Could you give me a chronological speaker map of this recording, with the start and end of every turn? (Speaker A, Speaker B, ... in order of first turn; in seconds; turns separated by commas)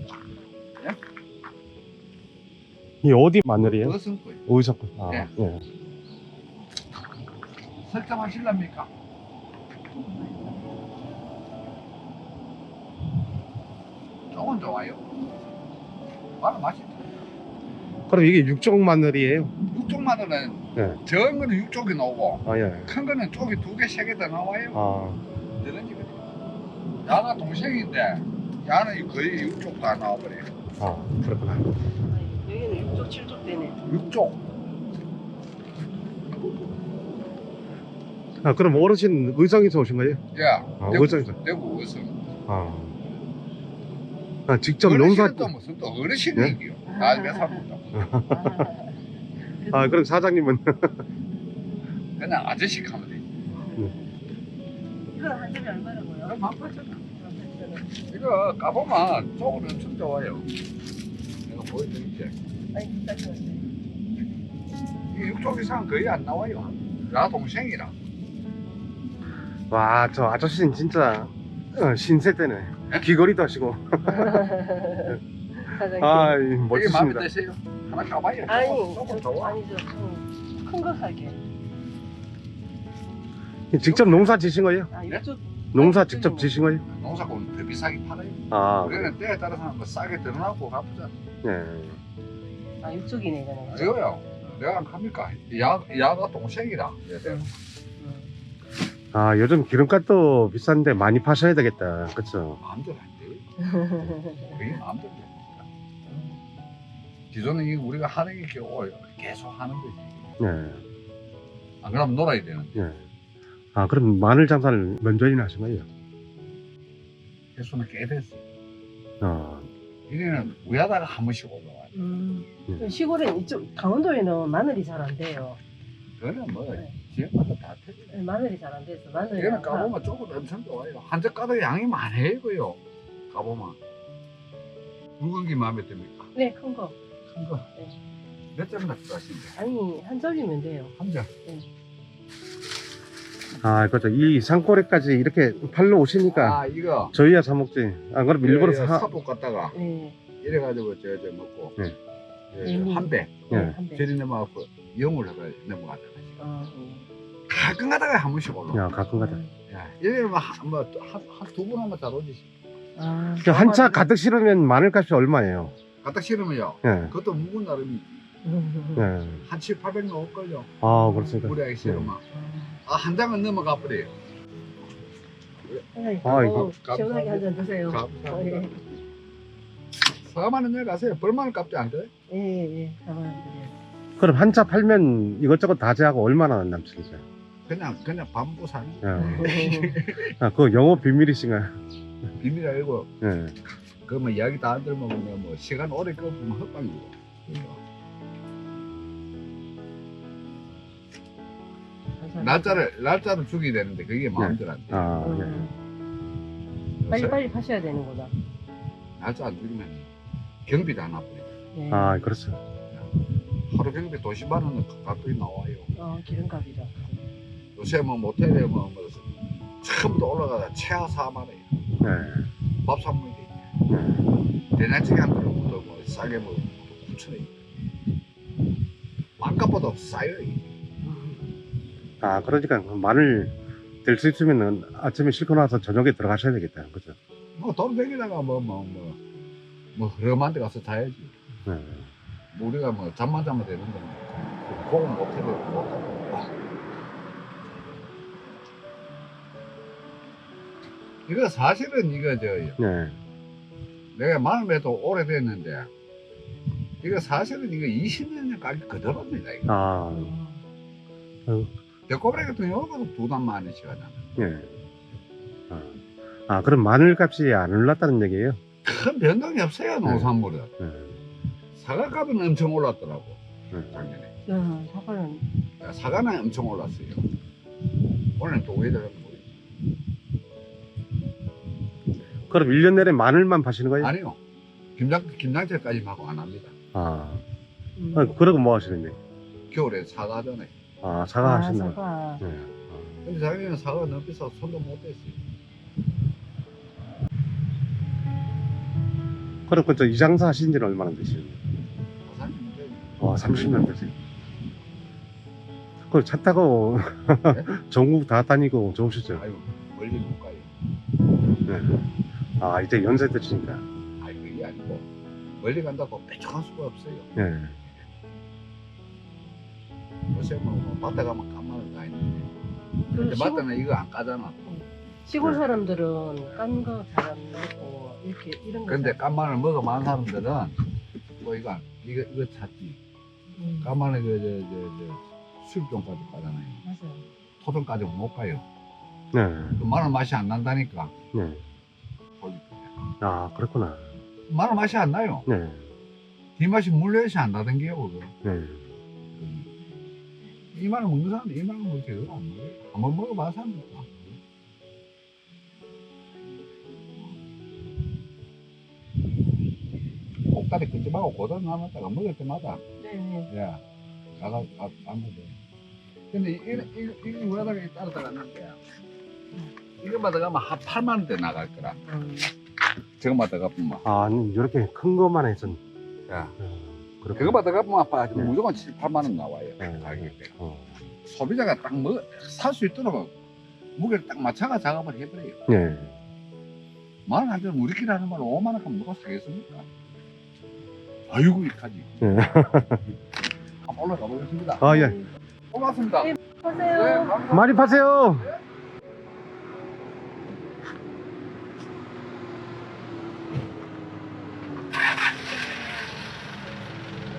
Speaker A: 3.0-4.0, Speaker B: 3.6-4.5, Speaker A: 4.5-5.6, Speaker B: 7.8-8.9, Speaker B: 14.3-15.0, Speaker B: 16.4-17.1, Speaker A: 18.1-19.5, Speaker B: 19.7-24.8, Speaker A: 22.4-22.9, Speaker A: 24.7-25.2, Speaker B: 25.6-26.3, Speaker B: 27.0-30.5, Speaker A: 30.8-31.7, Speaker C: 32.1-33.8, Speaker B: 33.9-34.4, Speaker A: 38.4-40.2, Speaker B: 40.3-42.4, Speaker A: 40.8-41.4, Speaker A: 42.5-42.9, Speaker A: 44.5-45.5, Speaker B: 44.8-48.2, Speaker C: 46.9-47.6, Speaker A: 48.0-48.7, Speaker C: 48.3-49.0, Speaker C: 49.6-50.1, Speaker A: 49.7-51.0, Speaker B: 52.2-53.5, Speaker C: 53.5-54.1, Speaker C: 55.1-56.4, Speaker B: 56.2-57.0, Speaker C: 57.0-57.9, Speaker B: 58.1-60.5, Speaker B: 61.5-62.4, Speaker C: 62.7-63.7, Speaker B: 65.1-68.0, Speaker A: 69.7-74.4, Speaker C: 74.0-76.5, Speaker A: 75.9-77.3, Speaker B: 76.7-79.6, Speaker C: 78.5-81.4, Speaker A: 83.7-84.9, Speaker B: 83.8-84.4, Speaker C: 84.9-86.5, Speaker A: 85.7-86.8, Speaker B: 86.9-91.1, Speaker A: 88.5-89.1, Speaker A: 91.4-92.0, Speaker C: 92.8-94.3, Speaker B: 93.7-97.5, Speaker C: 98.0-98.3, Speaker A: 99.1-102.6, Speaker B: 102.6-103.4, Speaker C: 103.8-104.5, Speaker B: 104.4-105.7, Speaker C: 106.1-106.4, Speaker B: 107.3-110.3, Speaker A: 110.4-110.8, Speaker B: 111.8-112.9, Speaker A: 112.8-113.0, Speaker A: 113.8-115.9, Speaker B: 117.6-118.4, Speaker A: 119.2-119.7, Speaker B: 120.1-121.9, Speaker C: 121.9-125.6, Speaker B: 126.2-128.2, Speaker C: 128.1-129.9, Speaker B: 129.4-132.8, Speaker B: 133.3-133.8, Speaker B: 135.2-136.3, Speaker C: 136.3-136.9, Speaker B: 137.3-137.7, Speaker B: 138.6-139.6, Speaker C: 139.6-140.9, Speaker B: 141.0-141.3, Speaker A: 143.6-146.6, Speaker B: 146.2-147.2, Speaker A: 147.1-149.1, Speaker B: 148.4-149.8, Speaker C: 149.7-150.2, Speaker B: 150.4-151.8, Speaker B: 152.5-156.4, Speaker C: 152.6-154.1, Speaker A: 153.5-153.8, Speaker C: 156.4-157.1, Speaker B: 157.5-158.9, Speaker A: 158.7-159.4, Speaker C: 159.1-159.5, Speaker B: 159.7-162.5, Speaker C: 163.0-163.5, Speaker B: 163.4-164.1, Speaker A: 163.4-165.8, Speaker B: 166.0-168.2, Speaker A: 166.8-167.1, Speaker C: 168.4-169.1, Speaker A: 169.0-169.4, Speaker B: 169.4-170.8, Speaker A: 170.8-172.1, Speaker C: 170.9-171.4, Speaker B: 171.4-172.2, Speaker C: 172.3-172.8, Speaker B: 172.8-174.1, Speaker B: 175.6-178.9, Speaker C: 175.9-178.7, Speaker A: 176.2-176.7, Speaker B: 180.2-182.1, Speaker C: 182.3-183.7, Speaker A: 184.2-187.2, Speaker B: 187.7-190.3, Speaker A: 189.0-189.5, Speaker C: 189.2-190.0, Speaker A: 190.4-191.8, Speaker B: 192.4-193.1, Speaker A: 193.2-193.6, Speaker B: 194.1-197.8, Speaker C: 202.2-202.8, Speaker B: 202.4-205.2, Speaker A: 204.4-205.7, Speaker C: 205.2-205.7, Speaker B: 207.0-207.4, Speaker C: 207.1-208.3, Speaker B: 209.2-210.1, Speaker B: 210.7-211.5, Speaker C: 211.7-212.3, Speaker A: 211.9-212.6, Speaker B: 213.7-215.9, Speaker C: 216.0-217.2, Speaker B: 217.8-221.7, Speaker A: 222.0-222.5, Speaker B: 222.8-223.6, Speaker A: 223.9-224.2, Speaker B: 224.8-227.5, Speaker B: 229.4-230.7, Speaker C: 231.1-231.4, Speaker A: 232.2-233.5, Speaker A: 234.1-237.2, Speaker B: 237.6-239.2, Speaker B: 239.9-241.3, Speaker A: 241.7-242.1, Speaker B: 242.5-246.5, Speaker B: 251.3-252.8, Speaker A: 252.8-253.2, Speaker B: 254.1-255.9, Speaker B: 257.0-259.7, Speaker A: 259.7-260.4, Speaker C: 260.1-260.6, Speaker B: 262.1-264.3, Speaker A: 264.4-264.7, Speaker A: 265.7-266.0, Speaker A: 266.5-268.6, Speaker B: 268.8-270.7, Speaker A: 270.8-271.2, Speaker B: 271.8-273.4, Speaker B: 273.9-274.3, Speaker C: 274.5-275.5, Speaker B: 275.8-277.2, Speaker B: 278.4-279.5, Speaker A: 282.5-284.1, Speaker B: 284.0-284.4, Speaker B: 285.0-286.8, Speaker A: 286.9-287.4, Speaker C: 288.0-288.4, Speaker A: 288.1-289.2, Speaker B: 289.7-290.7, Speaker A: 291.0-293.1, Speaker C: 291.4-292.4, Speaker B: 293.2-295.4, Speaker A: 299.7-301.6, Speaker B: 302.2-303.5, Speaker A: 303.2-304.1, Speaker A: 306.1-309.4, Speaker B: 309.4-310.8, Speaker A: 311.7-313.8, Speaker B: 314.2-315.1, Speaker B: 315.6-317.4, Speaker A: 317.4-317.8, Speaker B: 320.3-322.5, Speaker C: 323.1-323.7, Speaker B: 323.1-324.6, Speaker C: 324.7-329.2, Speaker B: 328.9-330.8, Speaker B: 331.4-333.0, Speaker C: 333.6-333.9, Speaker B: 333.8-336.8, Speaker C: 336.8-337.2, Speaker B: 337.6-338.6, Speaker A: 339.3-339.8, Speaker B: 339.8-341.1, Speaker A: 341.3-341.6, Speaker B: 342.4-342.9, Speaker A: 343.2-344.1, Speaker B: 344.5-345.5, Speaker A: 345.5-345.9, Speaker B: 346.6-348.3, Speaker A: 348.4-348.8, Speaker B: 349.4-349.7, Speaker B: 350.7-354.3, Speaker B: 360.5-362.8, Speaker C: 363.0-363.5, Speaker B: 363.5-363.8, Speaker B: 364.4-365.6, Speaker B: 366.3-368.8, Speaker B: 370.0-372.0, Speaker C: 372.1-372.5, Speaker B: 373.2-374.1, Speaker A: 374.1-375.8, Speaker B: 376.3-376.6, Speaker A: 376.6-377.6, Speaker B: 377.3-380.6, Speaker A: 379.8-381.0, Speaker B: 381.3-383.3, Speaker B: 384.0-385.6, Speaker A: 385.7-386.1, Speaker B: 387.3-389.9, Speaker B: 391.3-392.9, Speaker A: 392.2-393.0, Speaker B: 393.8-395.0, Speaker A: 394.8-395.2, Speaker C: 394.8-395.3, Speaker B: 395.7-396.3, Speaker C: 396.2-397.4, Speaker B: 396.9-398.6, Speaker A: 397.5-398.5